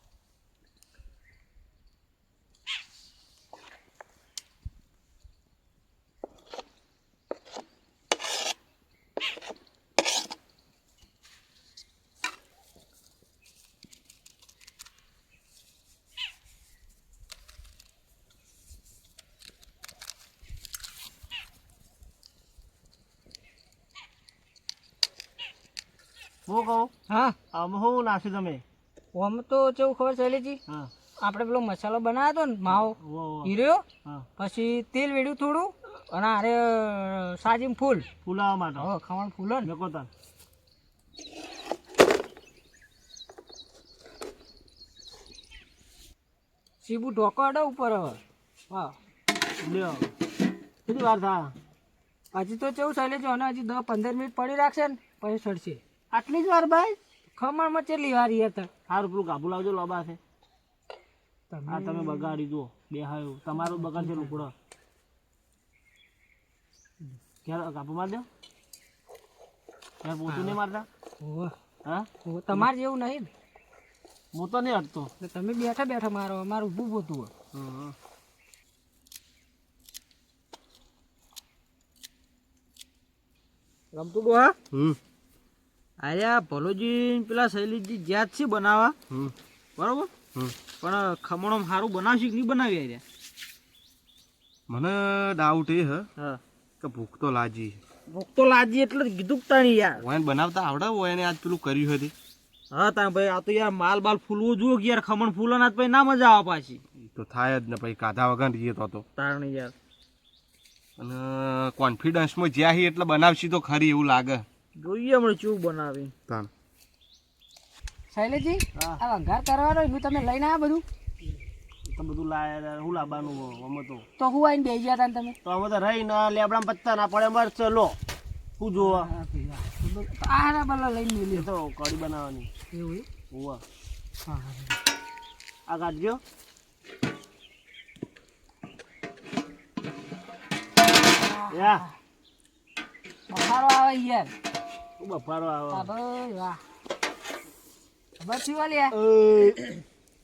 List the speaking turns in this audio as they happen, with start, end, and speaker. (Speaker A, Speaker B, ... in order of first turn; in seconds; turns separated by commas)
Speaker A: 26.5-26.9, Speaker B: 27.1-27.4, Speaker A: 27.5-28.6, Speaker B: 29.1-30.6, Speaker B: 31.2-33.8, Speaker A: 32.7-33.5, Speaker B: 34.4-38.1, Speaker A: 38.2-38.9, Speaker B: 38.8-39.7, Speaker A: 39.6-40.1, Speaker B: 46.8-49.0, Speaker A: 49.6-50.1, Speaker A: 50.9-51.5, Speaker B: 52.3-55.8, Speaker A: 56.1-57.0, Speaker B: 57.4-58.7, Speaker A: 58.9-60.2, Speaker B: 61.5-62.4, Speaker A: 61.7-64.5, Speaker B: 63.6-64.4, Speaker A: 67.5-68.3, Speaker A: 70.0-70.9, Speaker B: 70.3-70.6, Speaker B: 71.2-71.5, Speaker A: 71.8-72.7, Speaker B: 72.2-73.3, Speaker A: 74.3-75.1, Speaker B: 75.2-77.3, Speaker A: 77.5-78.0, Speaker C: 83.9-84.6, Speaker D: 84.7-85.0, Speaker C: 86.0-89.0, Speaker D: 89.1-89.3, Speaker C: 89.8-90.1, Speaker C: 90.8-93.0, Speaker D: 94.7-96.1, Speaker D: 96.8-97.8, Speaker C: 98.1-100.0, Speaker D: 100.0-102.1, Speaker C: 102.7-106.8, Speaker D: 107.0-109.0, Speaker C: 109.2-109.7, Speaker D: 111.0-114.5, Speaker C: 114.8-116.1, Speaker B: 118.1-120.8, Speaker A: 118.8-119.0, Speaker A: 121.9-124.0, Speaker B: 124.2-125.4, Speaker A: 125.4-128.0, Speaker A: 128.6-129.1, Speaker B: 128.8-131.5, Speaker A: 131.3-132.5, Speaker B: 132.7-133.1, Speaker A: 133.3-133.6, Speaker B: 134.3-134.8, Speaker A: 135.7-136.2, Speaker B: 141.2-141.9, Speaker A: 141.5-141.8, Speaker B: 143.3-144.3, Speaker A: 145.0-145.9, Speaker B: 145.7-146.6, Speaker B: 148.2-148.9, Speaker A: 148.9-149.6